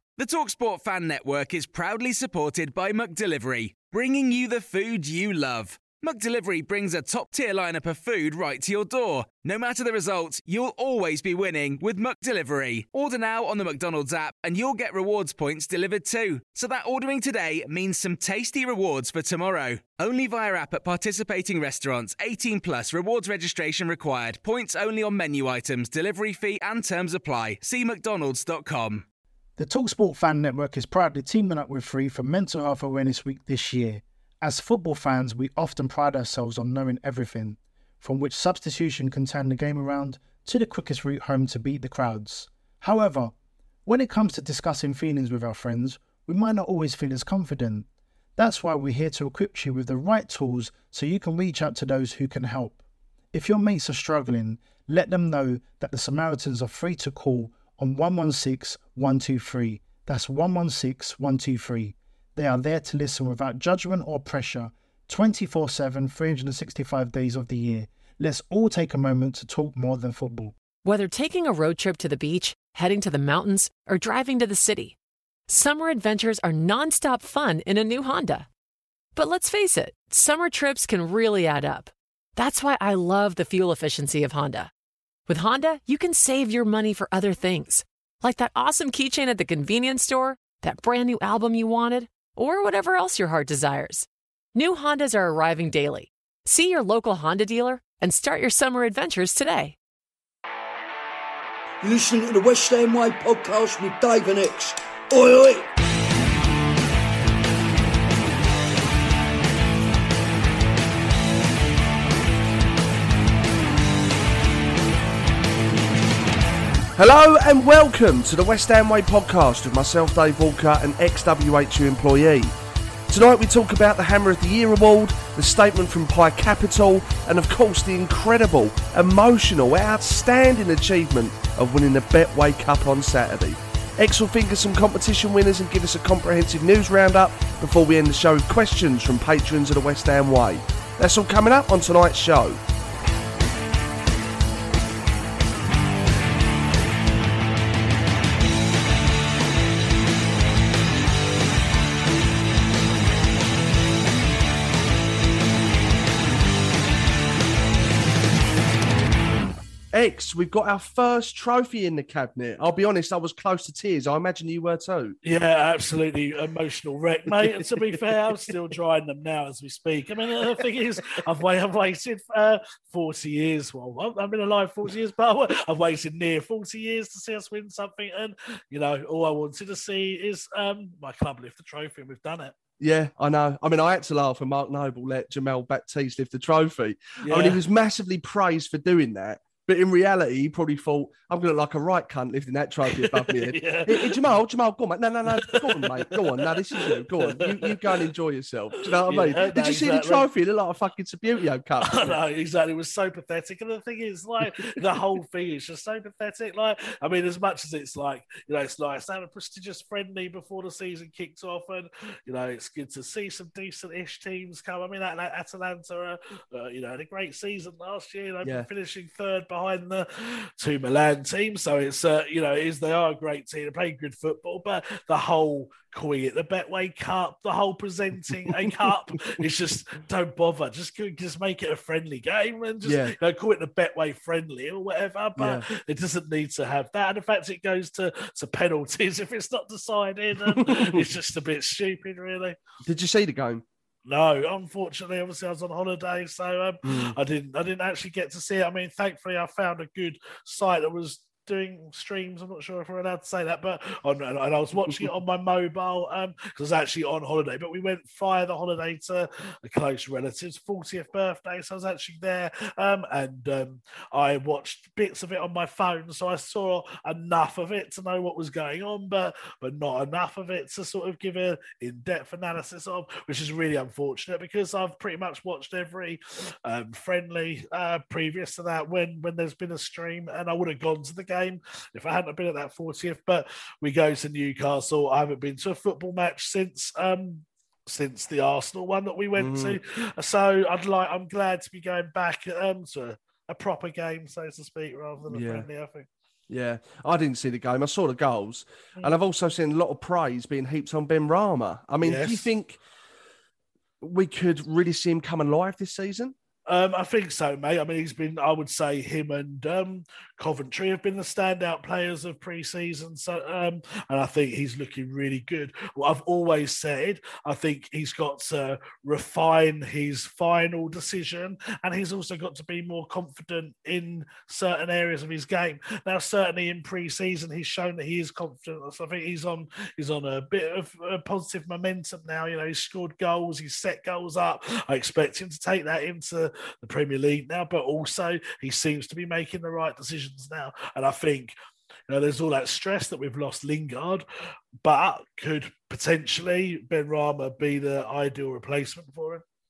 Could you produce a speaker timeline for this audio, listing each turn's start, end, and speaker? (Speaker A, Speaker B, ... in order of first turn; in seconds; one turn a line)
Speaker A: 0.2-29.1
Speaker B: 29.6-43.3
Speaker B: 43.9-52.8
Speaker B: 53.3-70.5
Speaker C: 70.8-75.0
Speaker C: 75.5-78.5
Speaker C: 79.1-84.7
Speaker C: 85.3-99.8
Speaker D: 101.8-105.7
Speaker E: 117.0-122.5
Speaker E: 123.1-142.6
Speaker E: 159.9-165.2
Speaker F: 165.2-182.6
Speaker E: 167.3-168.5
Speaker E: 182.8-202.2
Speaker F: 187.2-187.6
Speaker F: 192.9-194.2
Speaker F: 195.4-198.0
Speaker F: 198.9-200.3
Speaker F: 201.8-242.6
Speaker E: 218.4-218.7
Speaker E: 228.3-228.9
Speaker E: 232.8-233.1
Speaker E: 235.4-235.7
Speaker E: 240.4-241.1
Speaker E: 242.9-243.6
Speaker F: 244.1-296.1
Speaker E: 246.8-247.2
Speaker E: 254.8-255.1
Speaker E: 289.4-289.8
Speaker E: 295.3-295.7
Speaker E: 296.5-302.8
Speaker F: 302.0-302.5
Speaker E: 304.0-306.3
Speaker F: 306.7-341.5
Speaker F: 342.1-344.2
Speaker F: 344.8-349.4